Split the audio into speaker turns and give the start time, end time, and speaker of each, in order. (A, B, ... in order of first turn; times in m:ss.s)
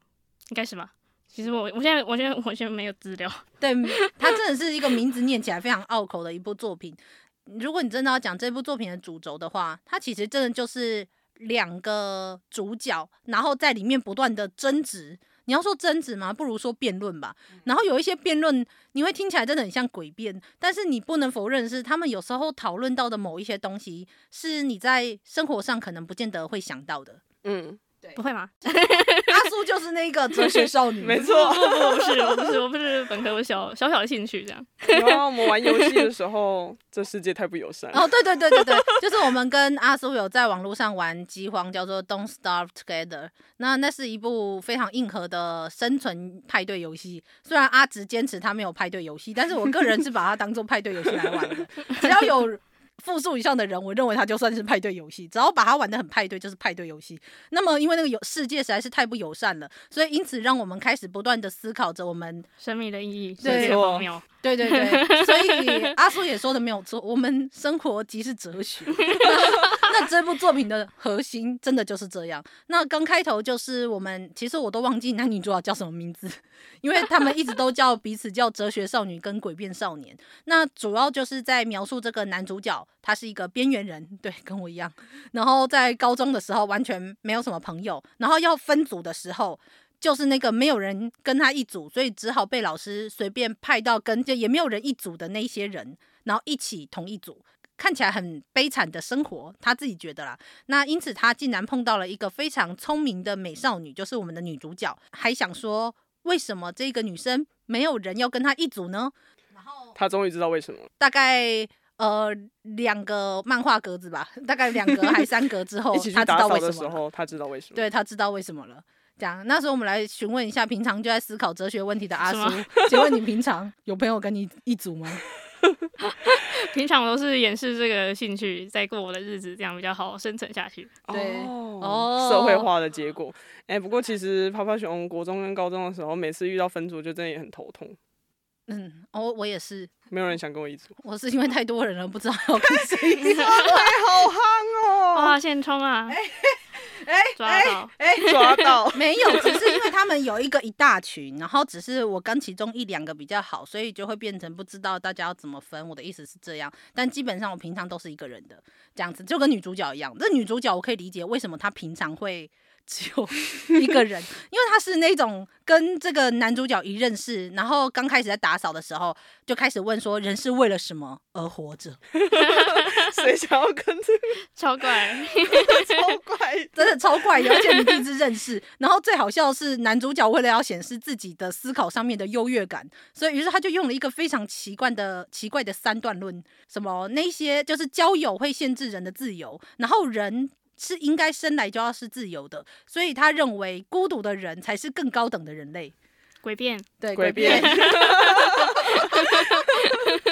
0:00.5-0:04.3 A
0:03.6-0:27.2 B
0:27.4-0:27.8 C
0:28.2-0:29.5 A
0:29.3-0:31.2 B
0:31.0-0:32.6 C
0:31.2-0:36.1 A
0:34.8-0:38.8 C
0:37.9-1:02.5 B
1:02.6-1:05.9 A
1:03.4-1:03.9 B
1:03.4-1:04.1 C
1:04.4-1:50.0 B
1:09.1-1:09.6 A
1:49.9-1:50.9 C
1:51.0-1:57.0 B
1:55.9-1:57.8 C
1:57.7-2:05.2 B
2:02.2-2:03.1 A
2:06.0-2:11.0 A
2:11.1-2:18.0 C
2:11.1-2:12.7 B
2:18.7-2:19.9 B
2:20.1-2:20.9 C
2:21.0-2:23.9 B
2:22.8-2:25.4 C
2:25.1-2:26.2 A
2:26.3-2:52.0 B
2:27.4-2:28.6 A
2:28.1-2:29.0 C
2:52.1-2:54.4 C
2:52.4-2:53.1 A
2:54.6-2:56.0 A
2:55.5-2:57.6 C
2:56.7-3:15.9 B
3:16.4-3:20.1 A
3:17.0-3:18.2 B
3:17.1-3:19.4 C
3:18.8-3:19.5 B